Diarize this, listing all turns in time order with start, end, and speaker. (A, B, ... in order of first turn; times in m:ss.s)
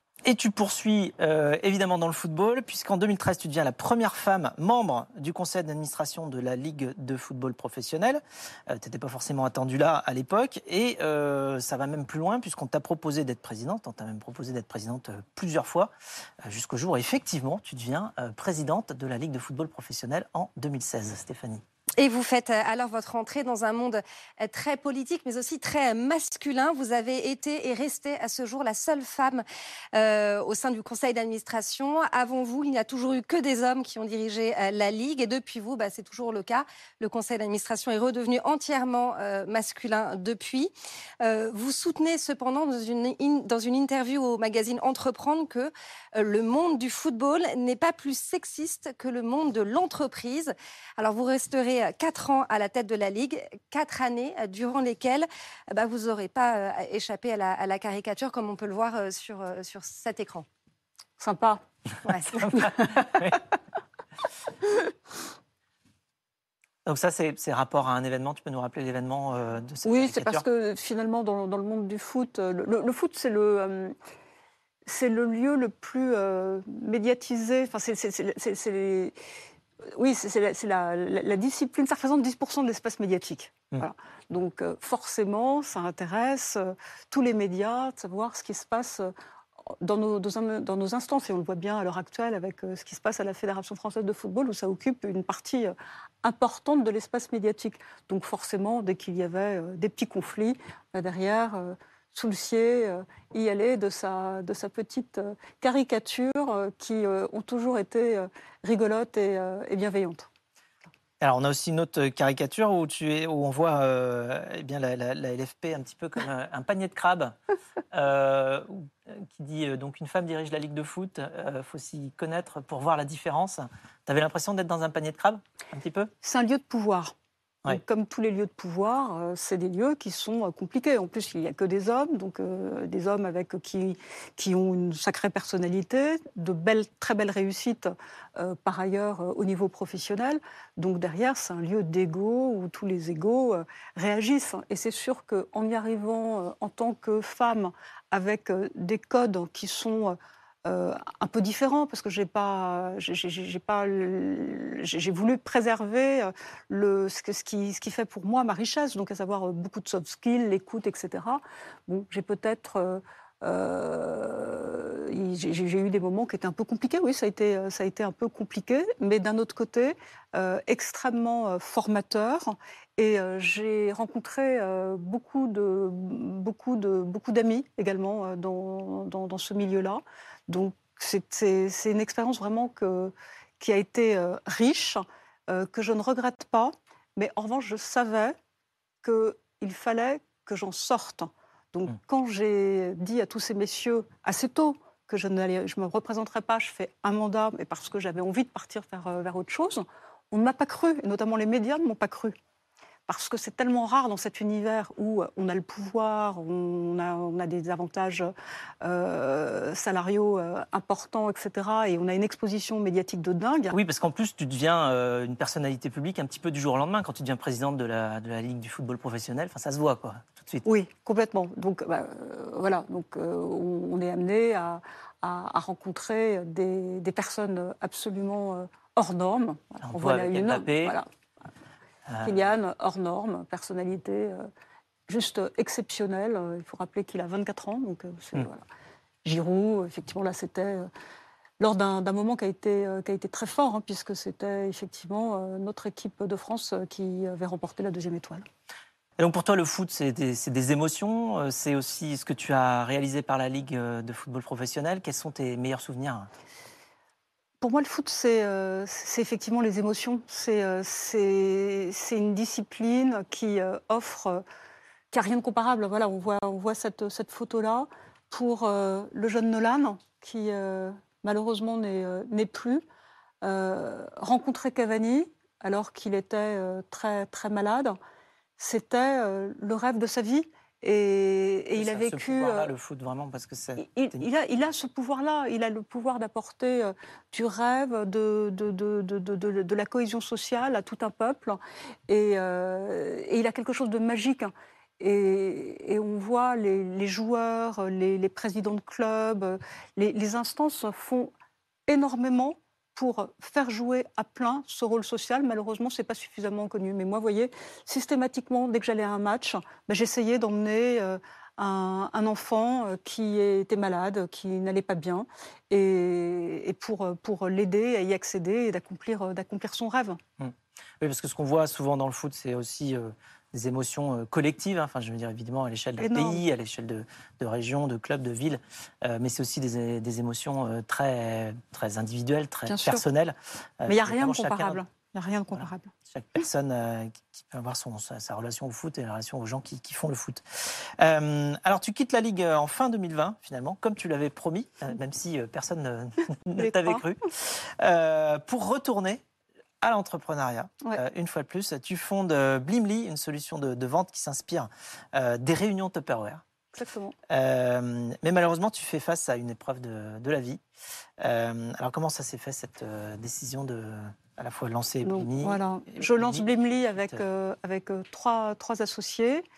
0:00.2-0:15.9 A
0:16.4-0:21.6 A
0:22.0-1:00.5 B
1:01.2-1:01.6 C
1:02.1-1:02.4 B
1:02.3-1:03.4 A
1:02.4-1:03.2 C
1:06.9-1:10.4 A
1:09.8-1:14.0 C
1:14.9-1:19.2 C
1:19.9-1:29.1 C
1:29.7-1:50.3 C
1:51.2-1:57.4 A
1:57.9-2:06.1 A
2:06.2-2:07.1 C
2:07.7-3:08.4 C
3:09.0-3:22.4 C
3:23.1-3:33.8 C
3:33.7-3:40.6 A
3:40.6-3:51.1 C
3:49.8-3:51.0 A
3:52.1-3:52.4 A
3:52.2-3:54.5 C
3:55.1-3:58.6 C
3:59.2-4:00.9 C
4:01.6-4:08.4 C
4:09.2-4:16.3 A
4:17.6-4:24.4 C
4:25.1-4:32.8 C
4:33.4-4:38.0 C
4:38.6-4:42.7 C
4:41.8-4:44.2 A
4:43.8-5:01.3 C
5:01.9-5:20.2 C
5:20.4-5:34.8 A
5:26.0-5:26.4 C
5:32.7-5:33.0 C
5:33.9-5:35.9 C
5:35.5-5:49.2 A
5:46.6-5:47.0 C
5:49.8-5:56.4 A
5:56.7-5:57.2 C
5:57.3-6:00.6 A
6:01.2-6:07.2 A
6:05.0-6:09.4 C